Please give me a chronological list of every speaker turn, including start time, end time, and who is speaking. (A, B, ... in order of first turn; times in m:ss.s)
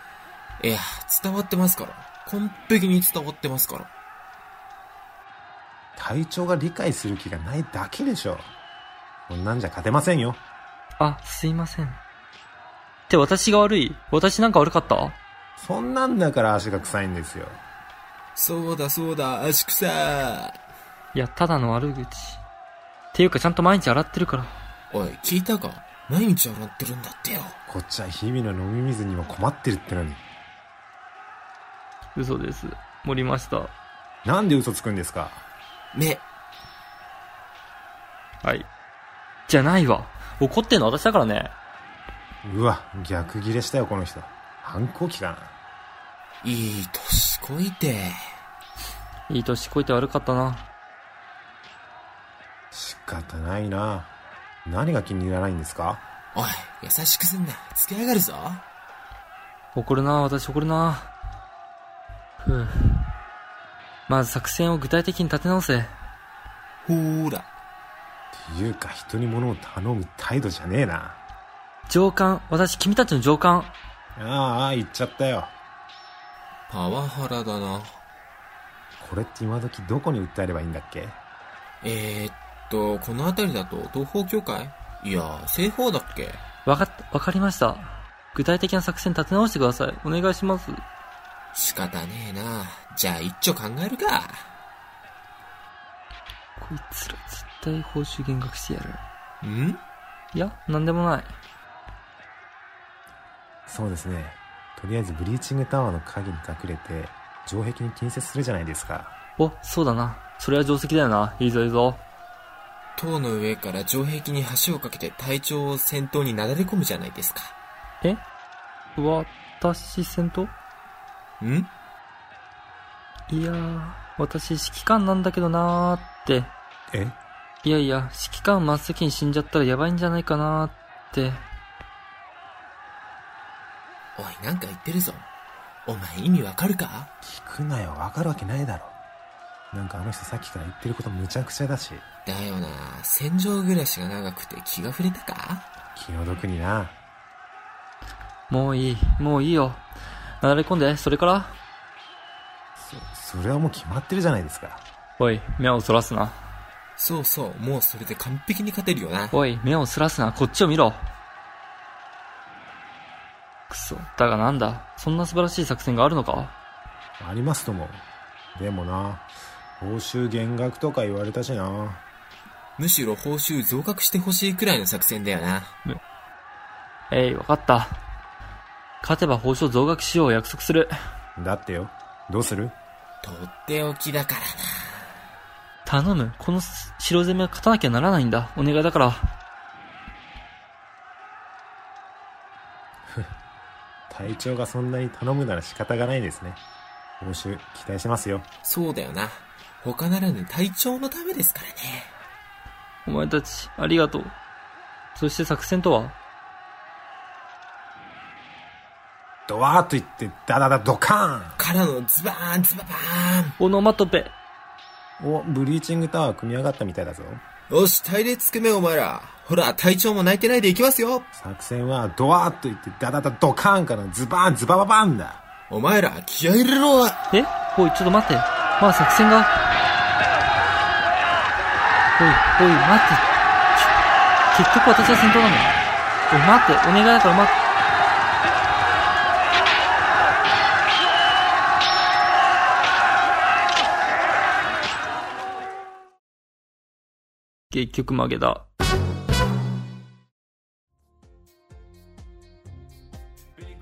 0:00.6-0:03.9 A
0:06.0-0:08.5 B
0:09.3-0:10.4 B
0:11.0-0:12.0 C
0:13.1-0:15.2 C
0:15.6-0:17.6 B
0:18.4-0:20.5 A
0:21.1-0:22.4 C
0:23.1-0:24.6 C
0:24.9-0:27.6 A
0:27.7-0:30.2 B
0:32.1-0:33.7 C
0:34.2-0:35.4 B
0:35.9-0:36.2 A
0:38.4-0:38.7 C
0:39.5-0:41.5 C
0:42.4-0:45.5 B
0:46.4-0:48.2 A
0:49.3-0:50.7 C
0:52.7-0:54.1 B
0:54.6-0:56.0 B
0:56.3-0:58.6 A
0:59.7-1:01.1 C
1:02.4-1:03.1 C
1:04.1-1:05.9 C
1:06.8-1:07.5 A
1:08.3-1:11.2 B
1:11.9-1:13.7 C
1:14.2-1:15.5 B
1:16.7-1:18.0 A
1:19.0-1:21.2 B
1:21.8-1:26.4 A
1:26.6-1:30.8 C
1:31.5-1:34.4 A
1:36.6-1:39.0 C
1:39.4-1:39.8 A
1:40.3-1:41.3 C
1:43.7-1:49.1 B
1:49.4-1:52.0 C
1:53.0-1:57.5 A
1:59.0-2:00.5 C
2:01.4-2:01.7 A
2:03.3-2:06.5 C
2:06.9-2:07.2 B
2:07.6-2:11.4 C
2:14.2-2:15.3 A
2:15.8-2:17.1 A
2:17.2-2:19.0 B
2:19.7-2:22.0 B
2:22.2-2:25.6 A
2:25.9-2:27.0 B
2:28.5-2:29.8 C
2:30.4-2:31.6 C
2:32.8-2:34.8 B
2:35.2-2:36.4 C
2:37.0-2:39.4 A
2:39.3-2:41.1 C
2:43.7-2:46.6 C
2:47.2-2:48.0 B
2:48.5-2:49.3 B
2:49.8-2:52.0 B
2:52.8-2:55.7 A
2:57.1-2:58.0 C
2:59.0-3:01.0 C
3:01.4-3:02.8 B
3:03.2-3:05.0 A
3:05.8-3:09.3 C
3:14.1-3:16.6 B
3:17.2-3:18.4 B
3:18.6-3:22.1 A
3:23.0-3:24.3 C
3:25.1-3:26.2 C
3:29.5-3:31.6 B
3:31.6-3:33.5 A
3:33.6-3:34.3 C
3:35.2-3:37.4 B
3:37.7-3:41.3 A
3:41.4-3:45.4 B
3:45.7-3:47.2 A
3:47.3-3:49.5 C
3:52.2-3:53.9 C
3:54.5-3:55.8 C
3:56.3-3:57.6 C
4:07.7-4:08.7 C